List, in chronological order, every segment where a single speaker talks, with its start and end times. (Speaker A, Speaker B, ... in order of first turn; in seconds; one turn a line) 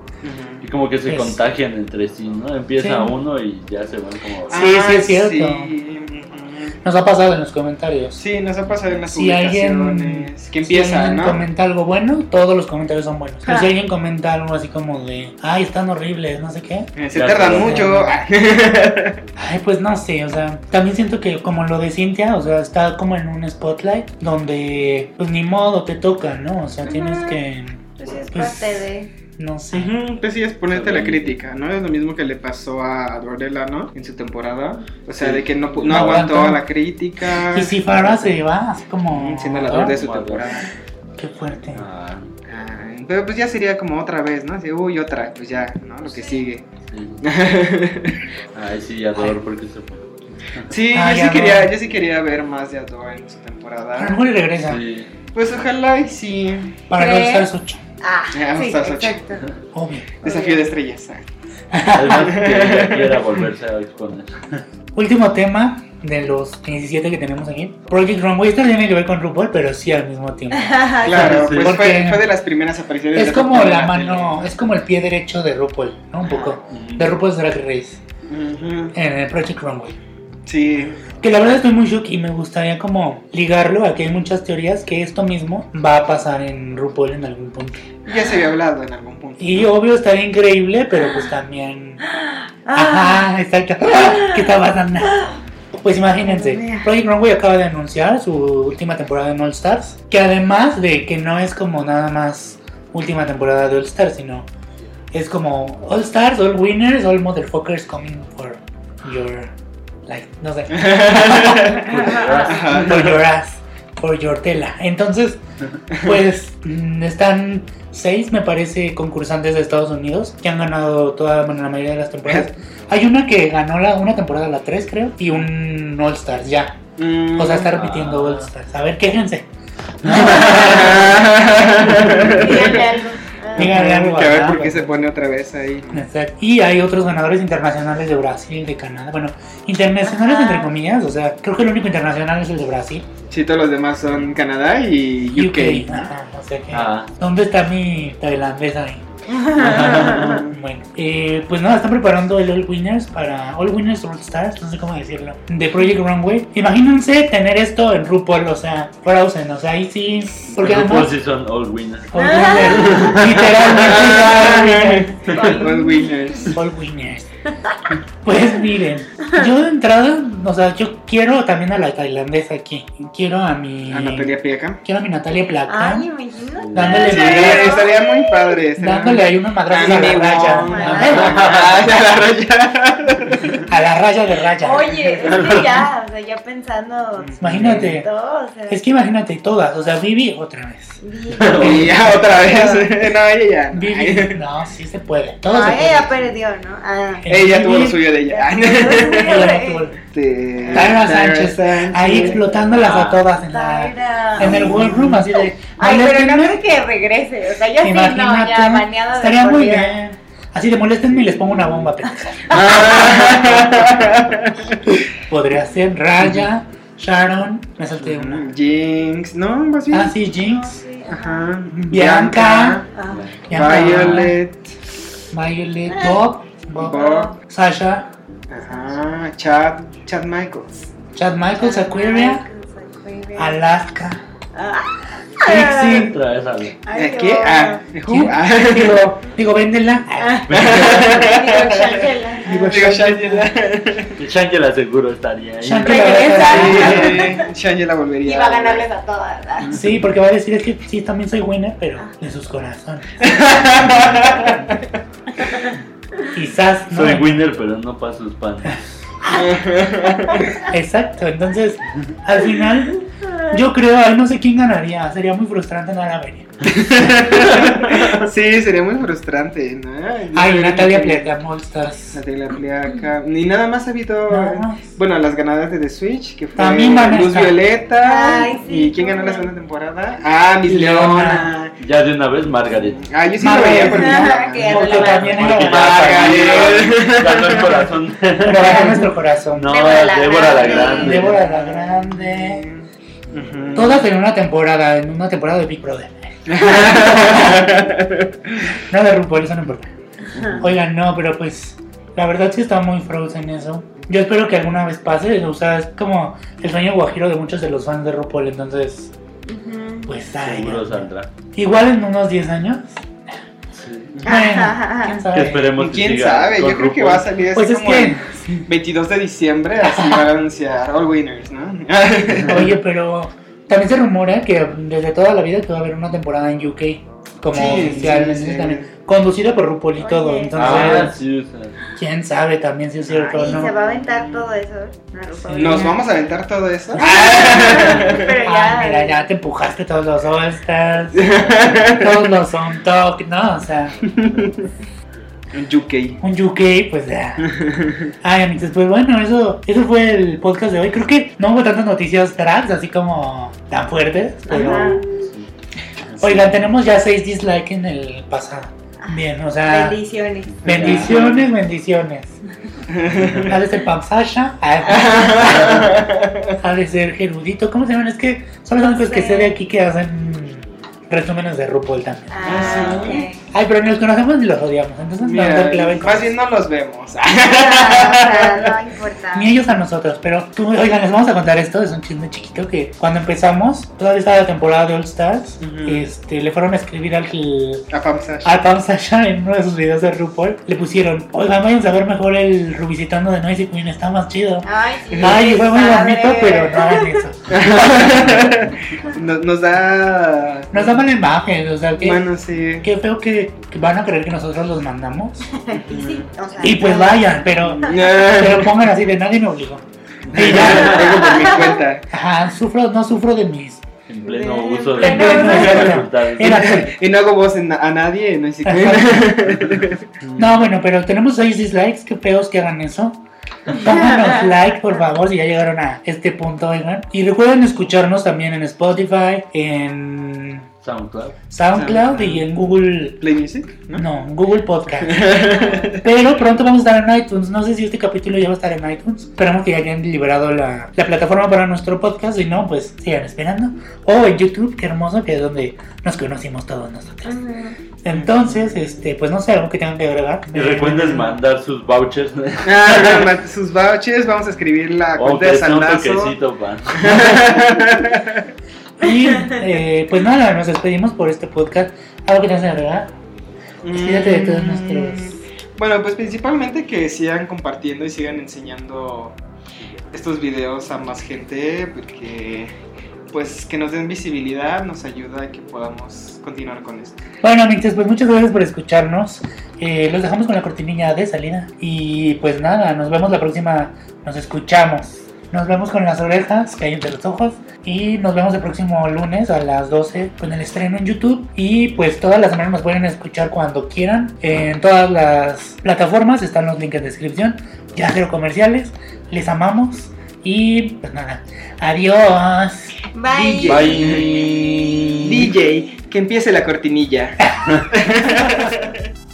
Speaker A: 0.2-0.6
Speaker B: 0.6-4.6
Speaker C: 1.1-1.4
Speaker C: 2.8-3.1
Speaker A: 4.5-6.8
Speaker C: 4.5-5.7
Speaker C: 6.8-8.2
Speaker A: 8.2-11.4
Speaker C: 9.1-18.3
Speaker D: 13.4-13.7
Speaker A: 17.0-19.2
Speaker B: 17.1-18.0
Speaker C: 19.4-29.9
Speaker D: 26.9-27.4
Speaker D: 28.0-29.1
Speaker A: 29.7-38.3
Speaker B: 30.7-31.4
Speaker B: 35.2-36.3
Speaker C: 35.9-36.6
Speaker C: 37.5-40.0
Speaker A: 39.1-40.7
Speaker B: 39.7-40.5
Speaker C: 41.2-41.9
Speaker B: 41.8-42.3
Speaker A: 42.5-46.6
Speaker D: 46.1-46.4
Speaker B: 46.9-47.2
Speaker A: 47.2-48.2
Speaker B: 48.5-50.7
Speaker A: 50.7-54.2
Speaker C: 50.9-51.7
Speaker C: 54.0-54.8
Speaker B: 54.7-55.1
Speaker A: 55.3-56.8
Speaker C: 56.9-57.8
Speaker D: 57.0-57.5
Speaker D: 58.0-59.4
Speaker A: 58.3-59.2
Speaker C: 59.7-60.1
Speaker A: 60.2-61.2
Speaker D: 60.2-60.6
Speaker C: 61.7-62.4
Speaker B: 61.9-64.6
Speaker A: 62.1-63.2
Speaker C: 65.0-72.3
Speaker D: 70.5-71.5
Speaker A: 71.0-74.5
Speaker B: 71.2-71.8
Speaker C: 73.1-78.0
Speaker A: 76.2-76.6
Speaker B: 76.7-77.1
Speaker A: 78.3-79.0
Speaker C: 78.9-80.0
Speaker A: 80.5-81.0
Speaker C: 81.2-87.9
Speaker A: 88.1-89.7
Speaker C: 89.4-92.0
Speaker D: 91.0-91.3
Speaker D: 92.1-93.2
Speaker C: 92.7-104.5
Speaker D: 94.0-94.5
Speaker D: 95.0-95.3
Speaker D: 96.2-96.9
Speaker C: 105.1-109.5
Speaker C: 110.1-112.1
Speaker A: 110.7-113.1
Speaker B: 111.8-113.1
Speaker D: 112.1-112.5
Speaker C: 112.7-115.4
Speaker C: 116.0-129.5
Speaker A: 127.0-127.7
Speaker B: 127.7-128.5
Speaker C: 130.0-132.8
Speaker A: 130.1-132.9
Speaker D: 132.3-133.8
Speaker A: 133.6-136.1
Speaker C: 133.6-135.1
Speaker C: 135.9-143.1
Speaker D: 140.0-140.7
Speaker A: 143.3-146.1
Speaker C: 145.3-149.0
Speaker B: 146.7-147.1
Speaker D: 149.3-150.4
Speaker B: 149.6-150.4
Speaker C: 149.7-161.2
Speaker A: 150.2-150.6
Speaker B: 160.5-163.7
Speaker C: 162.1-165.6
Speaker D: 162.2-163.2
Speaker A: 163.7-166.6
Speaker D: 165.3-166.6
Speaker C: 166.5-167.3
Speaker C: 168.2-176.1
Speaker D: 169.2-169.5
Speaker A: 173.9-174.8
Speaker D: 175.7-178.6
Speaker B: 176.7-177.1
Speaker C: 176.7-177.9
Speaker A: 177.0-183.6
Speaker C: 178.8-181.5
Speaker D: 179.8-181.6
Speaker B: 181.2-181.9
Speaker C: 183.7-185.7
Speaker D: 184.6-188.8
Speaker B: 185.4-185.6
Speaker A: 187.2-187.9
Speaker C: 187.4-188.1
Speaker C: 188.7-191.0
Speaker D: 191.0-192.9
Speaker B: 191.4-191.9
Speaker A: 191.6-194.4
Speaker C: 193.7-196.2
Speaker D: 195.5-197.2
Speaker C: 197.2-198.1
Speaker A: 197.3-199.5
Speaker D: 198.3-199.9
Speaker C: 198.8-200.0
Speaker A: 200.1-202.8
Speaker D: 200.6-200.9
Speaker C: 200.7-206.6
Speaker B: 202.8-203.2
Speaker D: 203.4-204.6
Speaker A: 204.4-205.3
Speaker D: 205.8-210.0
Speaker C: 207.8-214.1
Speaker D: 212.5-213.3
Speaker A: 212.5-214.9
Speaker C: 215.2-218.5
Speaker A: 218.1-220.2
Speaker C: 219.9-220.8
Speaker D: 220.3-221.5
Speaker A: 221.1-222.9
Speaker C: 221.7-222.8
Speaker D: 222.9-223.2
Speaker B: 223.1-224.3
Speaker C: 223.5-224.4
Speaker A: 223.5-224.8
Speaker C: 225.3-228.1
Speaker D: 225.9-226.2
Speaker A: 226.8-227.3
Speaker D: 226.9-227.3
Speaker A: 228.5-230.8
Speaker D: 228.6-229.0
Speaker C: 231.2-232.5
Speaker D: 231.6-233.6
Speaker C: 233.4-234.2
Speaker D: 234.6-236.2
Speaker C: 235.4-236.2
Speaker B: 235.9-236.8
Speaker D: 236.8-237.8
Speaker A: 236.9-239.1
Speaker C: 238.1-241.3
Speaker D: 240.2-242.7
Speaker B: 240.5-240.8
Speaker A: 240.5-244.2
Speaker C: 242.4-243.5
Speaker B: 244.2-247.1
Speaker C: 245.6-247.3
Speaker D: 245.8-247.4
Speaker A: 245.9-248.9
Speaker D: 248.2-249.8
Speaker C: 249.7-254.3
Speaker A: 253.2-254.8
Speaker D: 255.4-256.2
Speaker C: 256.3-257.5
Speaker B: 256.9-258.8
Speaker A: 259.3-260.6
Speaker D: 260.2-260.6
Speaker C: 260.6-266.5
Speaker D: 263.2-263.6
Speaker A: 266.7-271.3
Speaker C: 270.3-272.2
Speaker A: 272.1-281.8
Speaker C: 274.3-275.0
Speaker C: 276.6-277.6
Speaker D: 278.0-279.5
Speaker C: 280.7-281.5
Speaker B: 281.8-283.1
Speaker A: 282.6-287.9
Speaker C: 283.4-286.9
Speaker D: 283.9-285.7
Speaker B: 284.8-289.0
Speaker C: 288.4-289.7
Speaker D: 288.6-289.0
Speaker B: 289.5-291.4
Speaker D: 289.7-291.2
Speaker A: 290.5-294.1
Speaker C: 290.9-292.7
Speaker C: 293.7-297.7
Speaker A: 296.5-298.3
Speaker C: 298.9-299.9
Speaker D: 300.3-300.6
Speaker C: 300.6-309.1
Speaker D: 309.5-310.1
Speaker C: 310.1-313.0
Speaker B: 310.4-311.3
Speaker B: 313.7-314.2
Speaker C: 314.2-315.7
Speaker D: 314.3-315.2
Speaker B: 315.3-317.3
Speaker A: 315.8-322.7
Speaker C: 317.5-318.7
Speaker C: 319.8-320.3
Speaker C: 322.5-331.2
Speaker A: 327.5-328.9
Speaker B: 327.7-328.0
Speaker D: 330.0-331.0
Speaker B: 330.5-331.7
Speaker A: 330.7-331.0
Speaker C: 331.9-333.8
Speaker A: 333.2-334.5
Speaker D: 333.3-336.0
Speaker C: 335.4-336.1
Speaker A: 335.6-338.3
Speaker C: 336.9-344.0
Speaker D: 337.0-339.3
Speaker A: 341.1-342.3
Speaker A: 344.1-344.7
Speaker A: 345.5-346.2
Speaker C: 346.2-347.5
Speaker A: 347.4-348.1
Speaker C: 348.2-355.1
Speaker D: 354.5-355.3
Speaker B: 355.0-355.5
Speaker B: 356.1-356.5
Speaker C: 356.2-360.0
Speaker D: 359.0-360.6
Speaker B: 360.6-361.2
Speaker A: 360.6-361.5
Speaker C: 360.6-362.4
Speaker A: 362.9-363.6
Speaker C: 363.3-365.9
Speaker A: 364.8-366.6
Speaker B: 365.4-365.9
Speaker C: 366.6-376.4
Speaker D: 368.8-369.6
Speaker D: 372.3-373.4
Speaker A: 372.4-373.2
Speaker B: 372.5-373.1
Speaker A: 375.2-378.7
Speaker D: 377.5-379.6
Speaker C: 379.3-387.9
Speaker A: 385.6-386.1
Speaker A: 387.9-388.6
Speaker C: 388.4-398.1
Speaker D: 394.6-397.2
Speaker A: 397.5-401.0
Speaker C: 400.7-402.3
Speaker A: 402.0-402.9
Speaker C: 402.8-405.5
Speaker D: 405.6-407.4
Speaker A: 405.7-406.3
Speaker C: 406.6-411.4
Speaker A: 407.6-408.8
Speaker B: 410.2-411.6
Speaker A: 410.3-412.1
Speaker D: 411.1-411.8
Speaker C: 412.1-413.9
Speaker B: 414.1-416.6
Speaker D: 414.2-416.0
Speaker C: 415.0-416.9
Speaker A: 415.4-420.0
Speaker C: 418.6-419.3
Speaker B: 420.2-420.5
Speaker C: 420.4-430.7
Speaker D: 423.7-424.5
Speaker B: 430.8-431.4
Speaker C: 431.5-433.2
Speaker A: 431.7-432.5
Speaker A: 433.2-434.1
Speaker C: 433.9-435.4
Speaker A: 435.0-436.1
Speaker D: 435.5-435.9
Speaker C: 436.0-447.4
Speaker D: 447.2-447.8
Speaker C: 448.0-451.4
Speaker A: 448.1-448.7
Speaker B: 450.5-453.3
Speaker A: 452.6-456.4
Speaker B: 455.2-457.2
Speaker A: 456.9-458.4
Speaker C: 457.1-457.5
Speaker C: 459.0-463.1
Speaker A: 463.8-469.4
Speaker C: 463.9-465.4
Speaker A: 470.1-472.7
Speaker A: 473.3-477.2
Speaker C: 477.4-503.0
Speaker D: 503.1-504.3
Speaker A: 503.3-509.0
Speaker B: 503.7-505.5